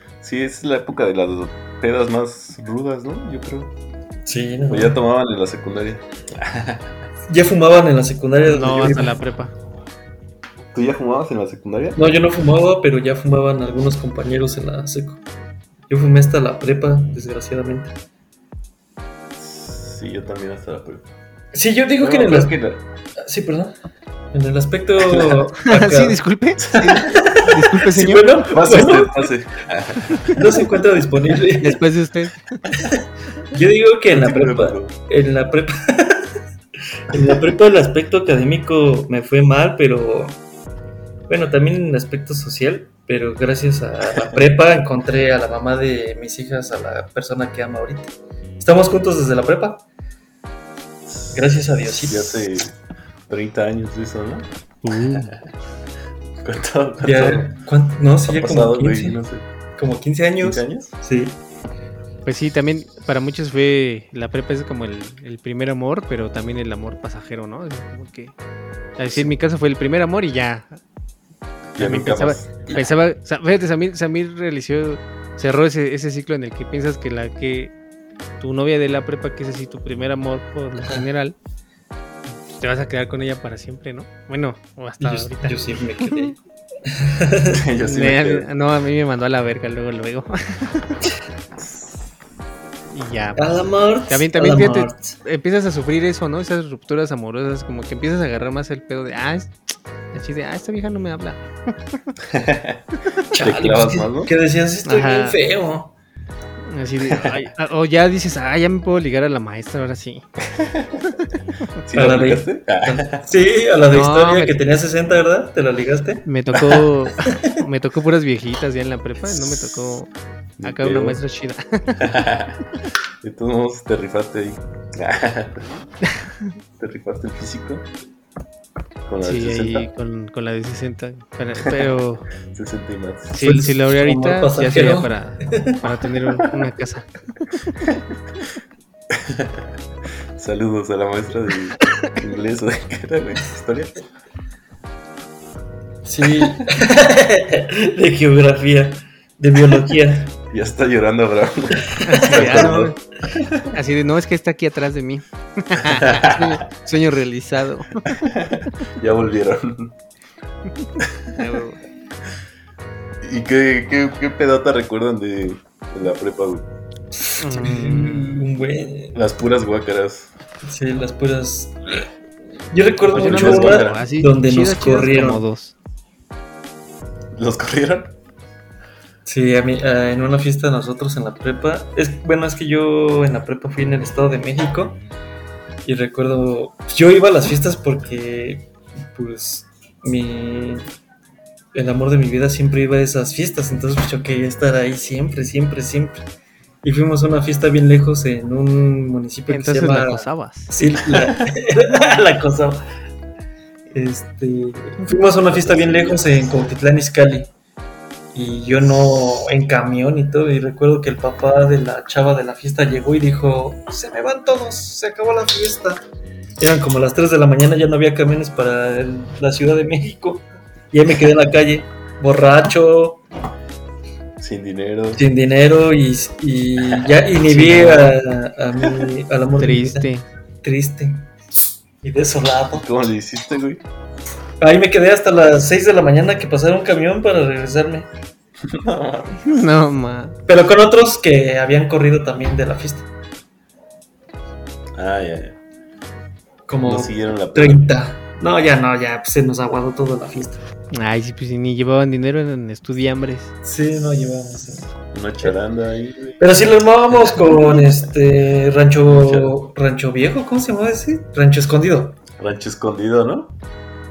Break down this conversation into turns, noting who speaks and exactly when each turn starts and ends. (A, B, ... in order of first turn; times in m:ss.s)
0:00.2-0:03.8 A
0:04.3-0:05.0 B
0:04.7-0:07.0 A
0:07.3-0:09.2 B
0:08.4-0:09.6 C
0:10.7-0:12.1 A
0:12.0-0:15.2 B
0:15.9-0:18.0 B
0:19.4-0:21.1 A
0:21.5-0:22.6 B
0:22.0-0:22.8 A
0:23.2-0:23.8 B
0:24.3-0:26.2 B
0:25.0-0:25.4 A
0:25.6-0:28.4 C
0:26.7-0:27.0 A
0:26.8-0:29.3 B
0:28.3-0:30.6 A
0:30.1-0:30.4 C
0:30.3-0:31.8 B
0:31.6-0:32.8 C
0:33.5-0:36.3 B
0:34.1-0:35.0 A
0:37.1-0:40.4 B
0:41.3-0:49.8 B
0:44.1-0:44.4 A
0:51.1-0:52.8 A
0:51.3-0:52.5 B
0:53.3-0:55.5 A
0:54.8-0:55.4 C
0:56.4-0:57.6 A
0:57.0-0:59.2 B
0:58.3-0:59.5 A
0:59.8-1:01.4 B
1:00.4-1:00.9 A
1:02.2-1:08.4 C
1:09.0-1:10.8 C
1:11.8-1:12.9 A
1:11.8-1:17.7 C
1:18.4-1:21.4 C
1:22.5-1:26.3 C
1:25.0-1:26.4 B
1:26.9-1:27.6 B
1:27.5-1:28.5 A
1:27.8-1:31.0 C
1:31.6-1:32.0 A
1:32.9-1:39.6 C
1:33.4-1:35.2 B
1:40.1-1:41.4 C
1:42.2-1:42.8 A
1:43.3-1:45.9 B
1:43.4-1:44.3 A
1:44.8-1:45.4 C
1:46.6-1:50.3 C
1:47.0-1:47.4 A
1:50.4-1:53.3 A
1:51.9-1:56.7 B
1:53.9-1:54.6 C
1:56.3-2:00.1 C
1:57.2-1:57.6 B
1:59.3-2:00.0 A
2:00.6-2:01.2 A
2:00.6-2:02.1 C
2:02.0-2:02.6 A
2:03.2-2:05.7 A
2:06.8-2:07.9 A
2:09.1-2:09.9 A
2:09.2-2:12.3 C
2:12.5-2:13.4 A
2:13.3-2:17.7 C
2:13.4-2:15.8 B
2:19.1-2:19.8 A
2:20.4-2:24.0 A
2:26.0-2:30.4 B
2:30.4-2:33.7 A
2:31.9-2:32.8 B
2:32.0-2:33.0 C
2:33.7-2:38.1 C
2:35.8-2:36.6 A
2:38.1-2:40.0 A
2:41.0-2:41.3 A
2:41.3-2:41.8 C
2:43.2-2:46.7 A
2:47.3-2:49.2 B
2:47.4-2:48.4 C
2:49.1-2:50.3 A
2:50.6-2:52.1 B
2:52.7-2:55.4 B
2:53.1-2:54.0 A
2:53.1-2:55.8 C
2:57.3-2:58.2 A
2:59.3-3:05.0 B
3:05.8-3:10.9 B
3:11.7-3:16.2 B
3:16.8-3:22.8 B
3:19.5-3:20.8 C
3:21.1-3:21.4 A
3:23.9-3:27.5 B
3:25.5-3:26.6 A
3:28.3-3:36.0 B
3:36.6-3:43.2 B
3:44.4-3:45.2 A
3:45.2-3:50.1 B
3:46.8-3:47.1 A
3:47.4-3:48.2 C
3:49.6-3:50.3 C
3:50.6-3:51.3 B
3:52.0-3:52.9 B
3:52.8-3:53.8 A
3:54.6-3:58.1 B
3:58.6-3:59.6 A
3:59.4-4:00.4 C
4:00.5-4:03.1 B
4:05.0-4:05.6 A
4:06.7-4:10.6 B
4:06.8-4:07.9 A
4:10.9-4:13.5 C
4:13.6-4:15.5 B
4:14.9-4:16.4 A
4:16.4-4:22.2 B
4:17.2-4:17.9 A
4:19.0-4:19.6 A
4:22.3-4:23.6 A